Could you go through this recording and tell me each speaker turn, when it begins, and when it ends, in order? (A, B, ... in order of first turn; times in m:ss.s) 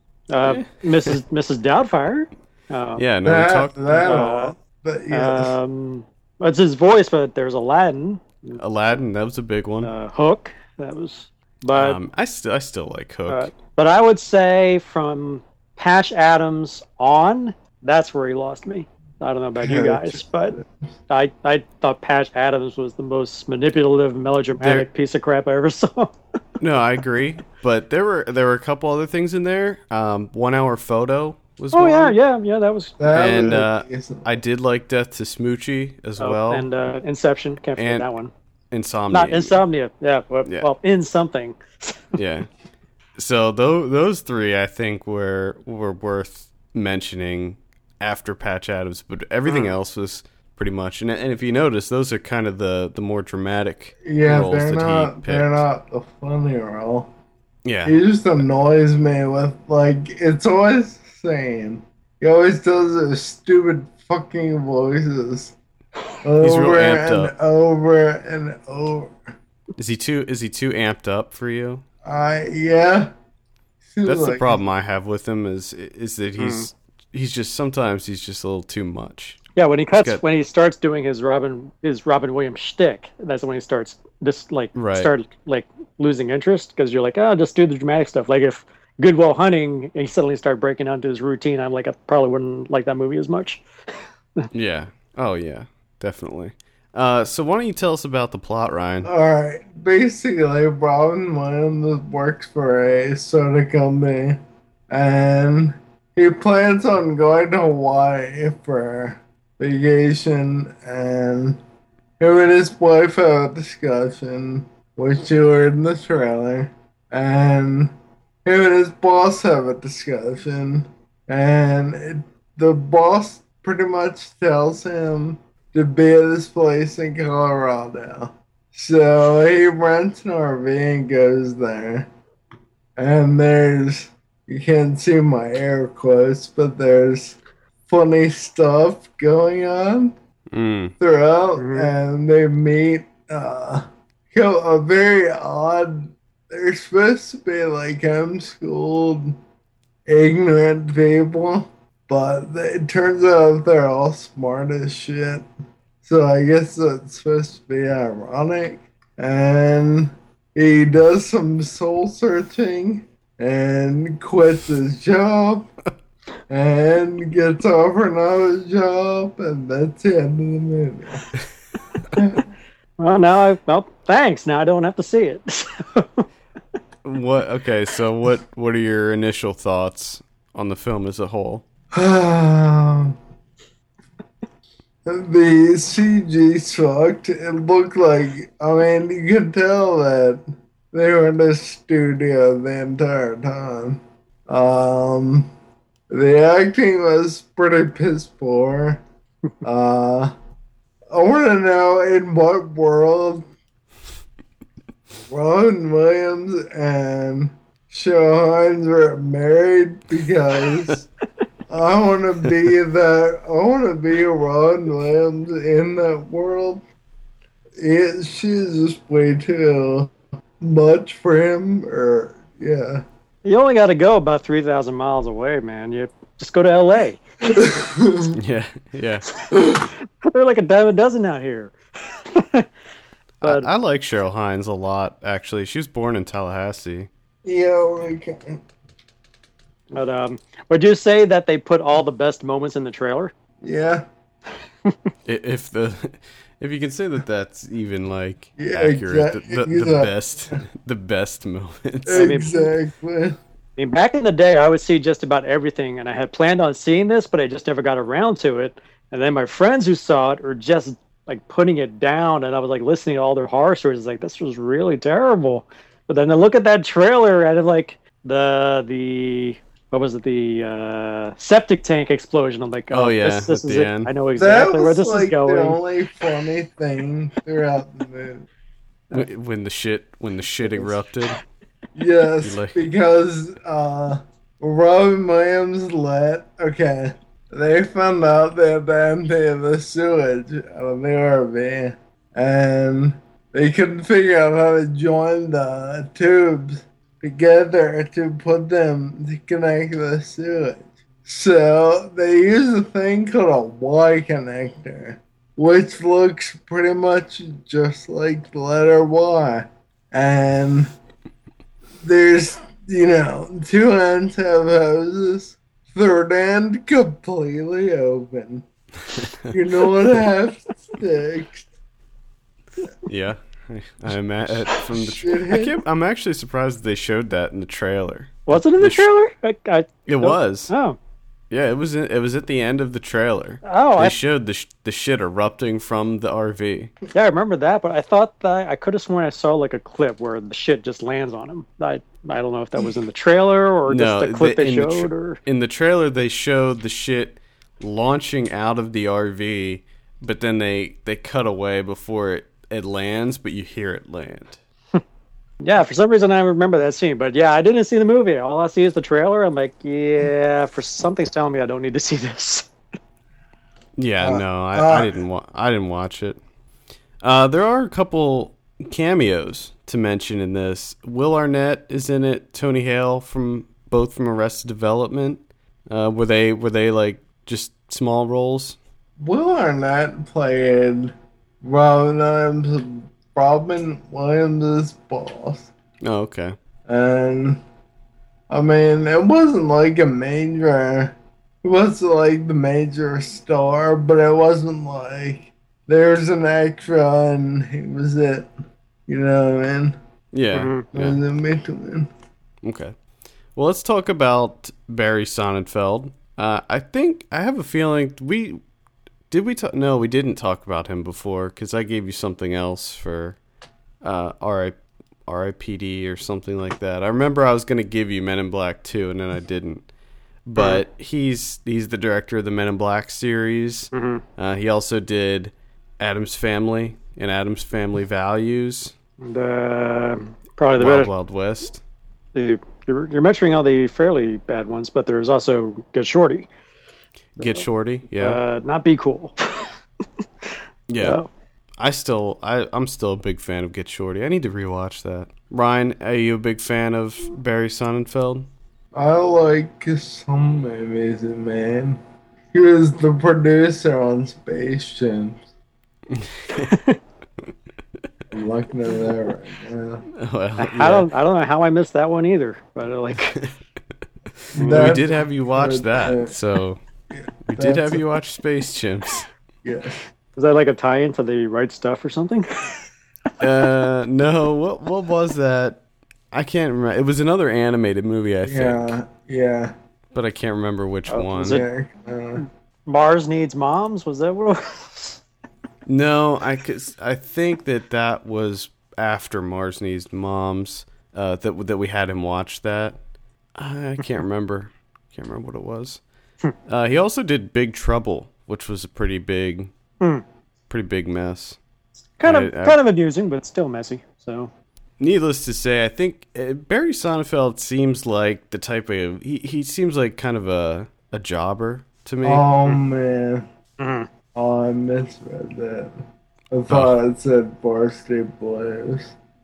0:00.3-0:03.0 A
0:00.4-0:01.2 B
0:03.0-0:04.3 B
0:03.2-0:05.6 C
0:04.0-0:04.6 A
0:05.1-0:08.6 A
0:08.6-0:09.9 B
0:09.8-0:12.0 A
0:11.7-0:13.5 B
0:13.3-0:20.6 A
0:19.6-0:20.7 C
0:21.1-0:26.1 A
0:24.6-0:24.9 B
0:26.6-0:32.2 B
0:31.7-0:33.0 A
0:33.0-0:34.4 C
0:33.1-0:36.6 B
0:36.2-0:38.3 A
0:37.8-0:38.1 B
0:38.7-0:39.6 B
0:39.1-0:41.6 A
0:40.4-0:40.7 B
0:42.2-0:42.5 B
0:43.2-0:55.6 B
0:49.5-0:49.7 A
0:54.0-0:57.1 C
0:57.6-0:58.0 B
0:57.8-1:05.6 C
1:06.2-1:09.2 C
1:06.4-1:07.3 B
1:09.8-1:11.8 B
1:12.0-1:13.1 C
1:13.9-1:14.6 C
1:14.0-1:19.4 B
1:16.4-1:16.7 A
1:19.6-1:33.6 A
1:20.0-1:20.2 B
1:24.7-1:25.1 B
1:34.5-1:39.1 B
1:39.0-1:51.6 C
1:52.2-1:57.9 C
1:58.4-2:12.1 C
2:13.0-2:20.2 C
2:20.5-2:21.0 B
2:21.0-2:29.4 C
2:21.6-2:21.9 A
2:30.1-2:35.5 C
2:36.0-2:45.7 C
2:46.5-2:51.3 C
2:52.2-2:52.4 C
2:53.0-2:56.2 A
2:57.0-3:01.6 B
3:02.0-3:03.1 C
3:05.1-3:10.4 C
3:10.9-3:15.5 C
3:16.1-3:19.0 C
3:19.6-3:20.3 C
3:21.1-3:23.4 C
3:25.3-3:31.1 C
3:31.7-3:36.8 C
3:37.8-3:43.0 C
3:43.4-3:47.2 A
3:47.5-3:48.4 C
3:48.3-3:49.3 B
3:50.2-3:51.7 A
3:52.3-3:52.6 A
3:53.4-3:57.1 B
3:53.4-3:53.7 A
3:57.4-3:58.6 C
3:59.9-4:03.3 A
4:03.6-4:04.0 C
4:05.2-4:12.4 B
4:08.6-4:10.6 C
4:12.1-4:13.4 C
4:12.1-4:12.7 A
4:13.8-4:35.8 A
4:32.9-4:34.1 B
4:34.4-4:38.5 C
4:39.1-4:41.4 B
4:42.0-5:10.9 C
4:42.4-4:42.8 B
5:12.0-5:18.6 C
5:19.5-5:21.7 C
5:23.1-5:29.1 B
5:25.0-5:25.8 C
5:28.5-5:31.0 A
5:30.1-5:30.7 B
5:31.5-5:36.9 B
5:33.6-5:34.2 A
5:37.1-5:45.4 A
5:43.9-5:54.6 B
5:55.6-6:02.7 A
6:04.0-6:06.4 B
6:04.2-6:05.1 C
6:07.2-6:18.8 B
6:19.2-6:25.7 C
6:26.0-6:26.6 B
6:26.9-6:27.6 C
6:28.5-6:38.5 C
6:39.1-6:40.0 C
6:40.3-6:41.2 B
6:40.5-6:40.9 A
6:40.9-6:42.1 C
6:42.6-6:42.9 B
6:43.6-6:48.6 B
6:49.3-6:53.4 B
6:54.0-6:59.9 B
7:00.5-7:08.9 B
7:00.6-7:00.8 A
7:03.9-7:04.2 A
7:09.2-7:11.1 A
7:10.8-7:11.8 B
7:12.4-7:16.5 A
7:17.4-7:18.4 B
7:18.2-7:19.7 A
7:20.9-7:21.2 B
7:21.0-7:21.3 A
7:21.8-7:28.5 B
7:28.9-7:32.0 C
7:32.5-7:35.4 C
7:36.2-7:36.7 B
7:36.5-7:37.0 A
7:38.3-7:40.0 C
7:40.2-7:41.1 B
7:40.6-7:43.4 A
7:44.5-7:46.4 C
7:44.6-7:45.0 A
7:44.7-7:46.8 B
7:47.1-7:48.0 C
7:47.4-7:49.3 B
7:49.6-7:50.0 C
7:50.4-7:52.4 A
7:53.4-7:58.9 B
7:58.4-7:59.7 C
8:00.1-8:01.6 B
8:01.1-8:01.7 A
8:01.4-8:02.4 C
8:02.4-8:05.2 A
8:05.9-8:13.0 B
8:13.6-8:16.0 B
8:16.7-8:19.7 B
8:20.7-8:21.6 B
8:22.2-8:24.5 A
8:22.2-8:22.8 B
8:25.0-8:32.5 B
8:32.2-8:33.5 C
8:33.8-8:34.1 A
8:34.4-8:35.9 C
8:36.5-8:39.2 C
8:36.7-8:37.0 B